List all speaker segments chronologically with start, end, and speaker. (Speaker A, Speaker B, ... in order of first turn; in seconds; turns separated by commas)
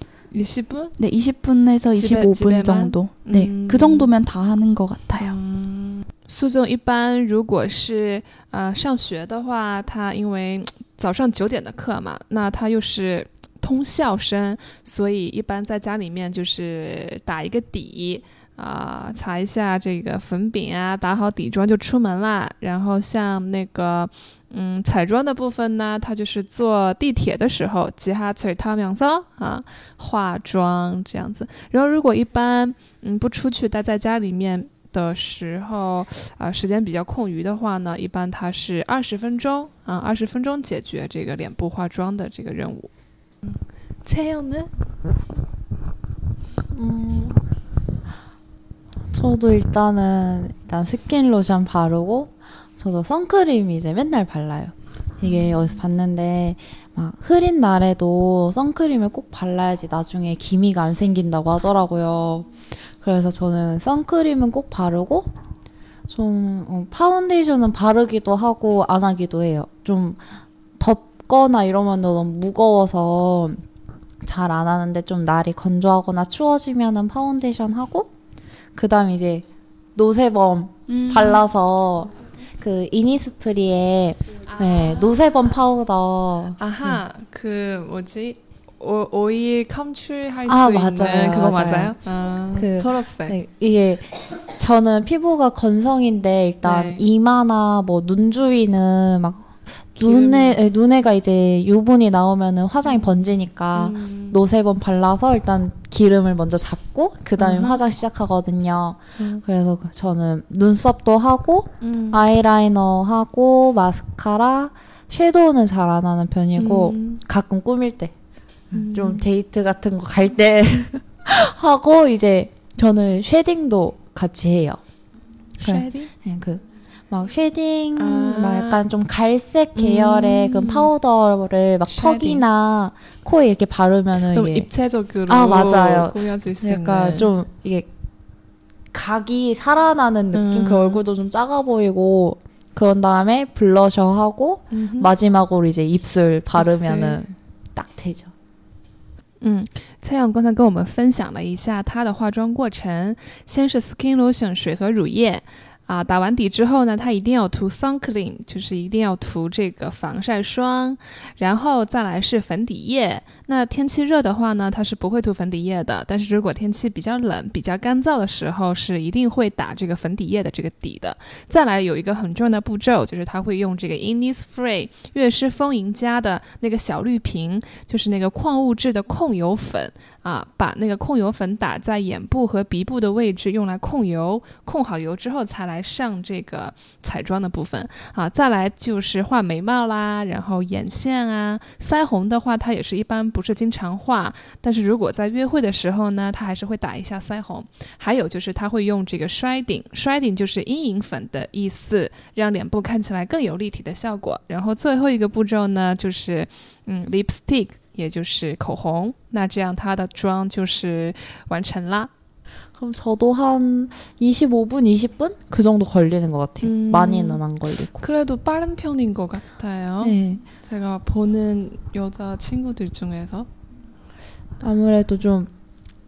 Speaker A: 0.3-0.9, Speaker B: 1.0-5.3, Speaker A: 1.9-4.1, Speaker A: 5.2-42.9, Speaker A: 43.4-44.7, Speaker C: 46.7-47.5, Speaker C: 49.1-65.3, Speaker A: 55.2-55.8, Speaker C: 66.1-73.6, Speaker C: 74.2-78.1, Speaker C: 78.7-87.0, Speaker B: 80.9-81.4, Speaker A: 84.6-85.0, Speaker A: 86.6-93.4, Speaker C: 90.5-91.9, Speaker C: 92.6-118.1, Speaker A: 96.6-97.0, Speaker A: 100.0-100.6, Speaker A: 103.7-104.4, Speaker A: 107.4-107.8, Speaker A: 109.2-109.4, Speaker A: 111.8-112.2, Speaker A: 116.5-117.2, Speaker A: 118.7-119.2, Speaker C: 118.8-124.8, Speaker A: 125.6-126.1, Speaker C: 125.6-134.7, Speaker A: 128.0-128.8, Speaker A: 129.7-130.9, Speaker A: 131.9-132.4, Speaker A: 134.3-137.3, Speaker C: 135.3-137.9, Speaker C: 138.9-148.3, Speaker A: 140.3-141.0, Speaker A: 144.7-145.1, Speaker A: 146.6-147.2, Speaker A: 149.4-212.1, Speaker C: 212.8-218.0, Speaker A: 216.6-223.5, Speaker C: 220.0-220.4, Speaker C: 224.6-225.5